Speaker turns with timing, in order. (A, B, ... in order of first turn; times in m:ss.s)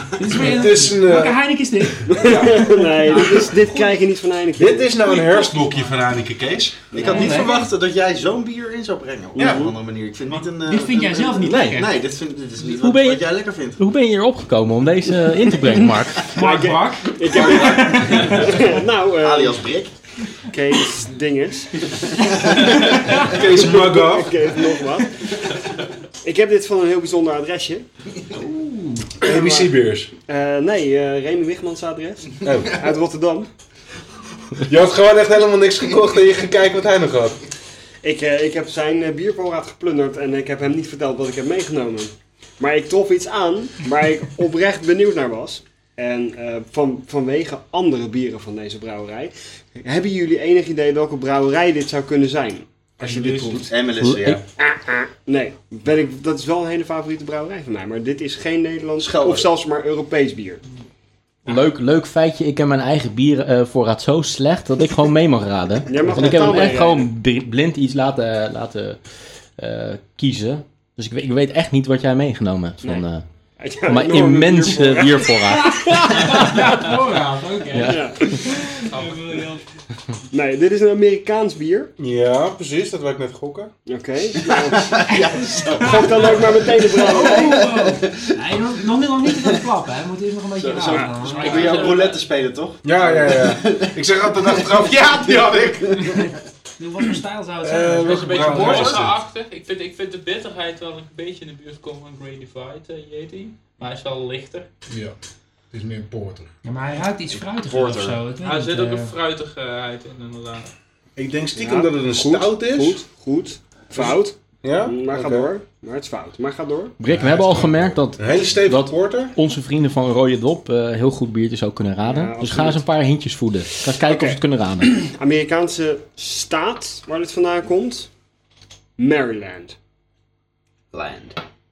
0:00.2-0:03.9 A
0:00.4-0:01.4 B
0:02.1-0:05.1 C
0:04.6-0:06.9 B
0:06.9-0:13.8 D
0:07.0-0:07.7 A
0:07.0-0:07.3 C
0:09.4-0:09.7 C
0:09.4-0:09.6 B
0:10.6-0:12.0 A
0:11.4-0:11.8 E
0:12.6-0:16.3 E
0:16.3-0:18.5 A
0:16.3-0:19.7 C
0:17.3-0:19.9 D
0:20.5-0:21.8 C
0:22.1-0:23.4 D
0:23.1-0:24.3 B
0:23.4-0:25.1 C
0:26.2-0:27.9 C
0:29.2-0:30.1 B
0:29.2-0:29.7 C
0:30.3-0:33.5 C
0:32.4-0:32.9 B
0:34.6-0:37.4 B
0:38.0-0:53.7 C
0:53.0-0:53.6 F
0:53.7-0:54.4 D
0:54.0-0:54.4 E
0:54.6-1:00.6 C
0:59.0-0:59.5 D
1:01.4-1:13.2 E
1:05.9-1:07.0 C
1:13.6-1:15.5 C
1:13.8-1:16.7 E
1:15.6-1:18.0 A
1:17.7-1:18.3 E
1:17.9-1:18.5 C
1:18.6-1:19.4 A
1:18.8-1:19.6 G
1:20.3-1:21.9 C
1:22.0-1:23.7 B
1:23.8-1:25.0 C
1:24.4-1:28.4 D
1:25.3-1:32.0 A
1:25.8-1:27.6 C
1:29.2-1:29.6 D
1:30.6-1:36.3 D
1:30.6-1:31.5 C
1:31.1-1:32.2 G
1:32.8-1:36.0 B
1:36.0-1:38.9 A
1:37.6-1:39.2 B
1:37.9-1:44.7 G
1:38.7-1:39.1 D
1:44.9-1:45.1 F
1:45.7-1:46.5 F
1:46.6-1:49.1 A
1:47.6-1:48.2 D
1:48.4-1:50.7 G
1:51.2-1:53.0 B
1:51.6-1:56.9 C
1:54.6-1:55.5 B
1:57.0-2:05.0 E
1:57.1-1:57.9 F
1:57.3-1:59.3 B
2:02.0-2:02.8 C
2:03.8-2:08.1 C
2:09.0-2:09.8 C
2:10.9-2:11.4 D